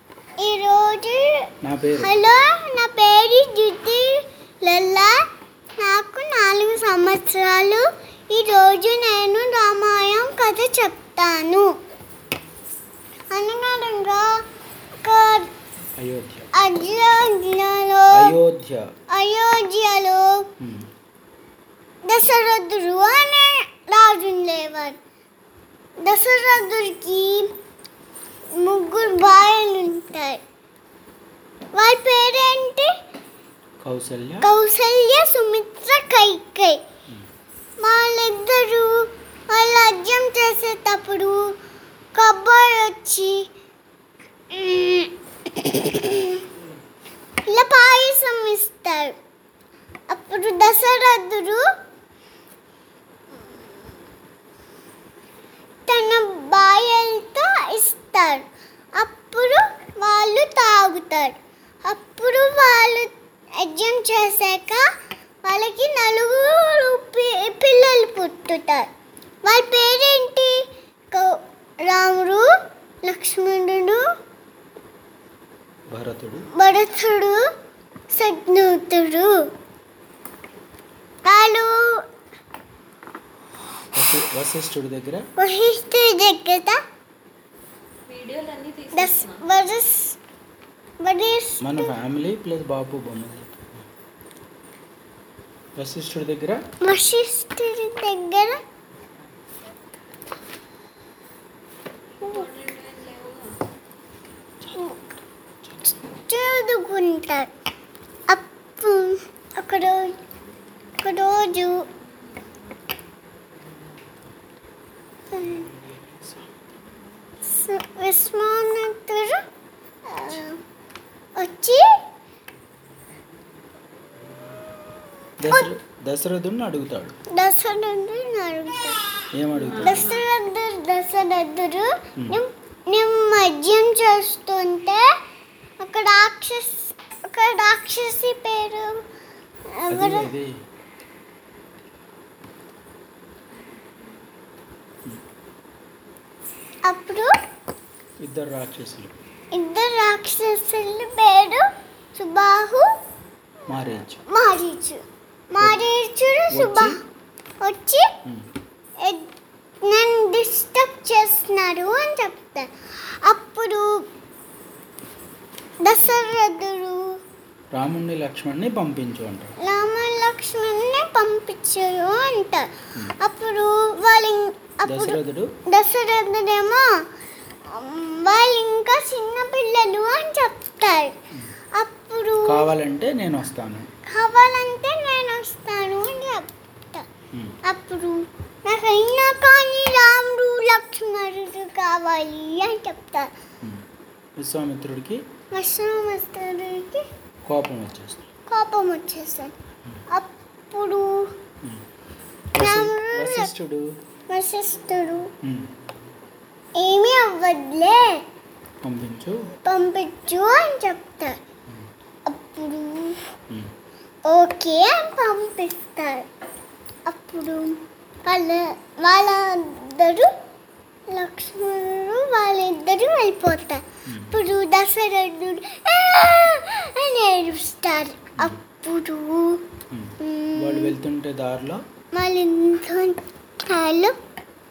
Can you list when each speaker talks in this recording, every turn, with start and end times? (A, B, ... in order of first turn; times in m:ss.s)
0:00.4-0:01.4 A
0:01.6-0:02.1 B
0:02.0-0:05.2 A
0:05.8-0:11.7 A
0:13.3-0:14.4 A
0:15.0-0:15.5 A
0:16.0-0:16.5 B
0:16.5-0:18.4 A
0:18.1-0:18.9 B
0:19.1-0:20.5 A
0:20.6-0:20.9 B
0:22.0-0:25.0 A
0:26.0-0:27.5 A
0:28.6-0:30.4 A
0:31.7-0:32.9 A
0:33.8-0:34.5 B
0:34.4-0:36.8 A
0:37.8-0:41.6 A
0:42.2-0:43.5 A
0:44.5-0:46.5 A
0:47.5-0:49.2 A
0:50.1-0:51.6 A
0:55.9-1:04.9 A
1:05.4-1:08.9 A
1:09.4-1:12.5 A
1:13.0-1:14.0 A
1:15.9-1:16.5 B
1:16.5-1:17.4 A
1:18.1-1:19.5 A
1:21.2-1:22.0 A
1:23.9-1:25.3 B
1:25.4-1:26.8 A
1:28.1-1:29.4 C
1:28.9-1:30.2 A
1:31.0-1:31.9 A
1:31.6-1:33.8 B
1:35.8-1:36.6 B
1:36.8-1:38.6 A
1:42.2-1:43.6 C
1:44.7-1:45.0 A
1:46.1-1:47.5 A
1:48.3-1:50.2 A
1:51.0-1:51.9 A
1:55.3-1:55.7 A
1:57.4-1:59.4 A
2:00.0-2:00.6 A
2:01.4-2:02.0 A
2:05.4-2:07.2 B
2:07.3-2:09.0 A
2:09.3-2:10.1 B
2:09.5-2:10.2 C
2:09.8-2:15.1 A
2:15.8-2:19.0 A
2:19.7-2:20.3 A
2:19.9-2:20.6 B
2:26.9-2:27.4 A
2:28.2-2:29.1 B
2:29.5-2:32.9 A
2:33.7-2:34.2 B
2:34.2-2:37.0 A
2:35.6-2:35.9 B
2:36.5-2:37.0 B
2:37.6-2:38.1 A
2:39.0-2:39.3 A
2:39.8-2:44.0 A
2:45.8-2:47.2 A
2:47.7-2:49.6 B
2:49.6-2:52.7 A
2:53.2-2:57.0 A
2:54.9-2:55.5 B
2:57.7-3:01.2 A
3:01.7-3:02.7 A
3:02.4-3:03.9 B
3:04.1-3:07.1 A
3:07.6-3:13.3 A
3:14.4-3:15.2 B
3:15.5-3:17.1 A
3:17.5-3:18.2 B
3:18.5-3:19.5 A
3:20.1-3:21.3 A
3:22.5-3:24.0 B
3:22.6-3:23.5 A
3:24.3-3:25.3 A
3:25.4-3:25.7 B
3:26.8-3:28.2 A
3:28.8-3:29.5 B
3:29.6-3:31.4 A
3:32.3-3:33.3 A
3:34.3-3:36.3 A
3:37.1-3:40.3 A
3:41.1-3:49.7 A
3:44.1-3:44.3 B
3:49.9-3:51.8 B
3:50.2-3:51.0 A
3:52.1-3:54.2 A